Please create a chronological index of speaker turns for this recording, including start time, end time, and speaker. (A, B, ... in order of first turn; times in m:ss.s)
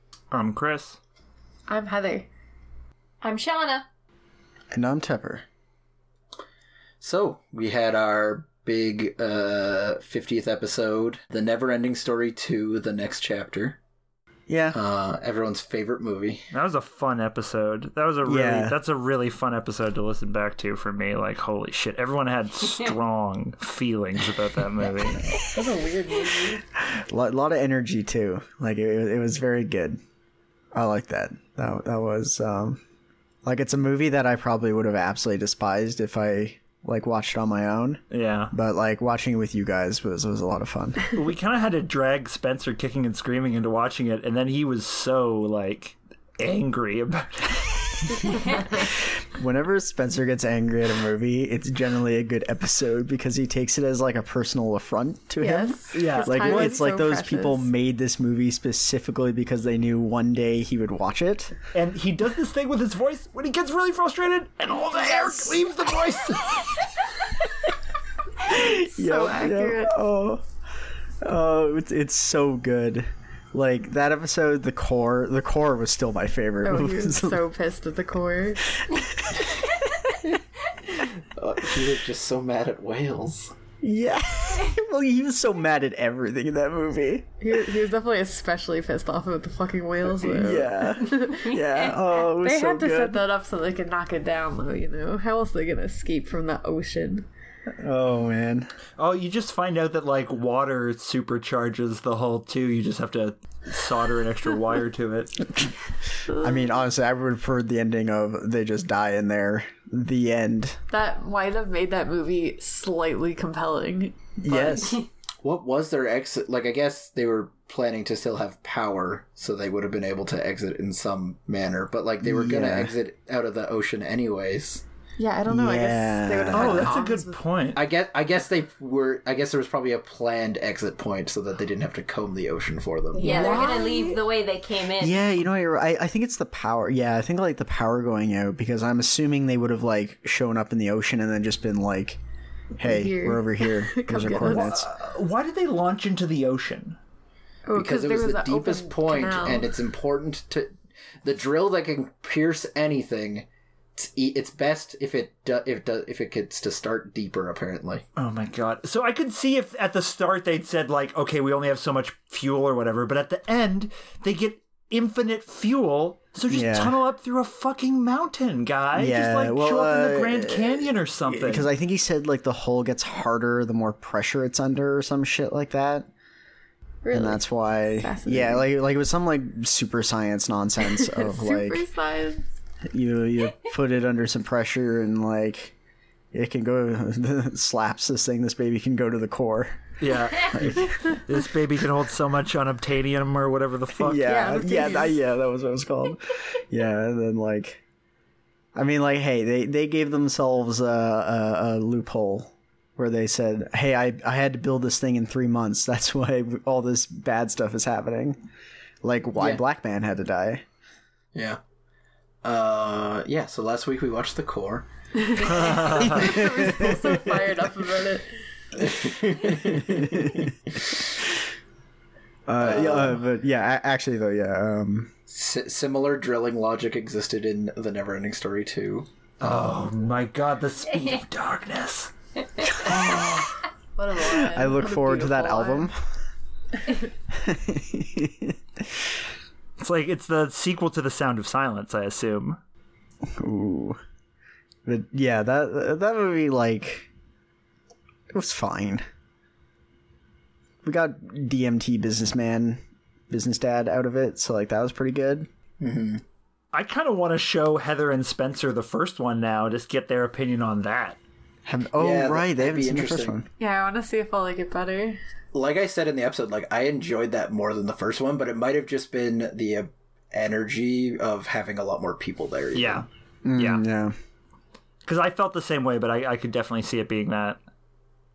0:00.3-0:01.0 A
0:01.7-0:02.3 B
0:03.2-0:03.8 C
0:04.7-0:05.4 D
0:07.0-0:13.8 E
0:14.5-0:14.8 D
0:14.7-0:16.5 E
0:16.5-0:25.2 A
0:18.2-0:18.8 D
0:24.8-0:25.3 E
0:25.4-0:26.6 B
0:26.8-0:30.0 D
0:30.7-0:32.8 D
0:33.4-0:41.1 D
0:38.1-0:38.5 A
0:41.1-0:48.4 A
0:48.5-1:01.6 D
0:55.4-0:57.7 B
0:55.9-0:56.8 A
1:01.7-1:06.9 A
1:08.4-1:10.4 D
1:08.5-1:10.0 B
1:11.2-1:17.4 D
1:16.6-1:18.7 B
1:18.9-1:19.7 D
1:21.2-1:23.5 E
1:23.8-1:27.3 D
1:27.4-1:31.6 B
1:30.0-1:33.2 D
1:32.1-1:37.3 B
1:37.8-1:38.7 D
1:39.0-1:45.7 A
1:46.3-1:50.8 D
1:50.9-1:54.7 B
1:54.4-1:55.0 D
1:54.7-1:55.0 C
1:55.4-2:04.8 E
2:02.2-2:02.9 D
2:05.2-2:07.4 B
2:05.4-2:07.0 D
2:06.5-2:07.9 A
2:07.7-2:13.4 E
2:13.1-2:14.2 B
2:13.2-2:15.2 C
2:15.0-2:22.2 D
2:22.8-2:24.9 D
2:22.8-2:24.8 B
2:24.3-2:27.0 A
2:27.6-2:29.7 B
2:27.7-2:38.0 E
2:38.2-2:51.7 A
2:46.5-2:47.0 D
2:48.9-2:56.1 D
2:57.0-2:57.4 B
2:57.1-3:01.8 D
2:58.0-2:58.7 B
3:01.0-3:02.4 B
3:02.9-3:05.7 D
3:06.3-3:09.8 D
3:10.0-3:14.4 A
3:10.4-3:10.9 D
3:13.9-3:17.8 D
3:14.2-3:15.1 B
3:18.7-3:28.4 D
3:29.0-3:30.6 D
3:29.4-3:29.6 E
3:31.3-3:31.6 E
3:32.4-3:35.7 E
3:35.2-3:38.3 B
3:35.5-3:36.2 A
3:36.0-3:37.0 D
3:38.7-3:40.8 E
3:39.7-3:40.5 D
3:42.5-3:45.1 D
3:42.6-3:43.2 E
3:45.3-3:49.1 E
3:49.4-3:52.1 A
3:52.8-3:53.4 D
3:54.0-3:55.9 B
3:54.3-3:56.0 D
3:57.3-3:59.0 D
3:59.8-4:02.6 A
4:03.3-4:04.0 D
4:04.8-4:07.1 D
4:08.3-4:09.0 D
4:10.8-4:15.5 D
4:15.8-4:16.2 E
4:16.7-4:21.2 A
4:21.6-4:23.5 D
4:22.0-4:23.4 E
4:23.6-4:25.2 B
4:25.5-4:33.0 E
4:32.7-4:33.8 A
4:33.4-4:34.1 D
4:35.0-4:37.6 A